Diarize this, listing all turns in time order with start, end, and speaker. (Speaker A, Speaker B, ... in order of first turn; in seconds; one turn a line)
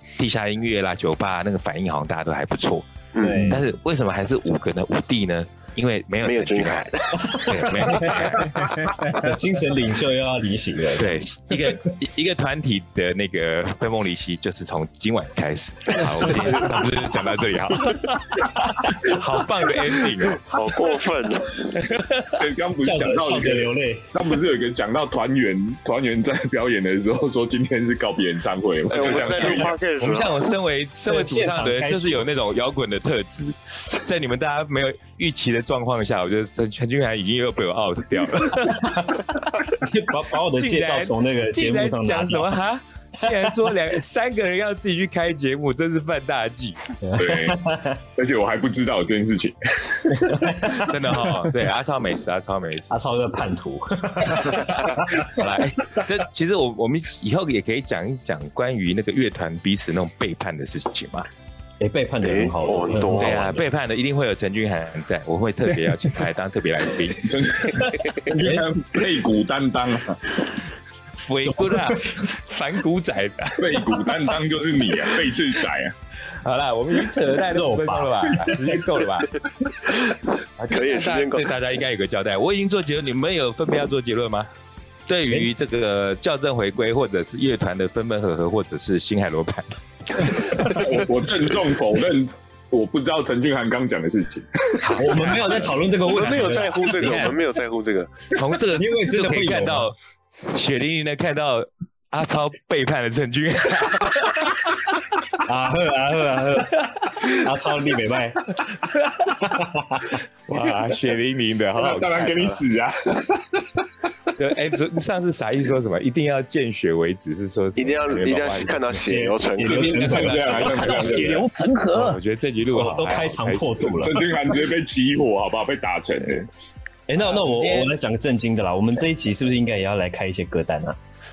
Speaker A: 0.2-2.9
Speaker B: 3.1-3.6
Speaker C: 3.2-3.6
Speaker A: 3.4-8.8
Speaker B: 6.2-7.7
Speaker D: 7.3-7.7
Speaker C: 8.1-9.1
Speaker D: 9.1-11.7
Speaker A: 11.0-20.6
Speaker D: 18.8-19.1
Speaker B: 20.4-21.7
Speaker A: 21.8-22.4
Speaker E: 22.4-29.8
Speaker D: 22.8-24.1
Speaker B: 28.9-30.5
Speaker A: 28.9-39.6
Speaker D: 31.1-32.3
Speaker D: 38.7-39.1
Speaker D: 39.7-42.6
Speaker A: 40.5-46.8
Speaker D: 43.2-43.8
Speaker D: 47.0-48.0
Speaker E: 47.1-47.6
Speaker E: 48.1-50.1
Speaker D: 50.1-51.5
Speaker A: 50.7-53.0
Speaker D: 52.9-55.3
Speaker A: 54.4-61.3
Speaker D: 61.8-63.6
Speaker B: 62.2-63.5
Speaker A: 63.2-67.5
Speaker E: 67.3-70.2
Speaker D: 68.4-68.7
Speaker A: 71.3-73.8
Speaker D: 71.4-72.2
Speaker E: 73.6-76.0
Speaker A: 76.4-79.4
Speaker D: 77.5-78.7
Speaker A: 80.6-84.5
Speaker B: 80.7-81.5
Speaker A: 85.1-90.7
Speaker E: 90.5-94.8
Speaker D: 94.8-97.3
Speaker A: 94.8-97.4
Speaker B: 96.0-98.1
Speaker A: 98.3-100.0
Speaker D: 98.6-99.9
Speaker A: 100.5-105.2
Speaker D: 105.4-108.6
Speaker A: 106.9-107.4
Speaker A: 108.8-109.4
Speaker D: 109.4-110.2
Speaker A: 110.5-112.6
Speaker E: 111.8-113.7
Speaker A: 114.3-119.0
Speaker B: 117.8-120.3
Speaker D: 119.0-120.9
Speaker E: 119.6-121.6
Speaker C: 120.4-122.2
Speaker A: 121.9-124.0
Speaker D: 122.7-124.3
Speaker E: 123.9-126.5
Speaker D: 127.1-131.0
Speaker A: 127.2-127.9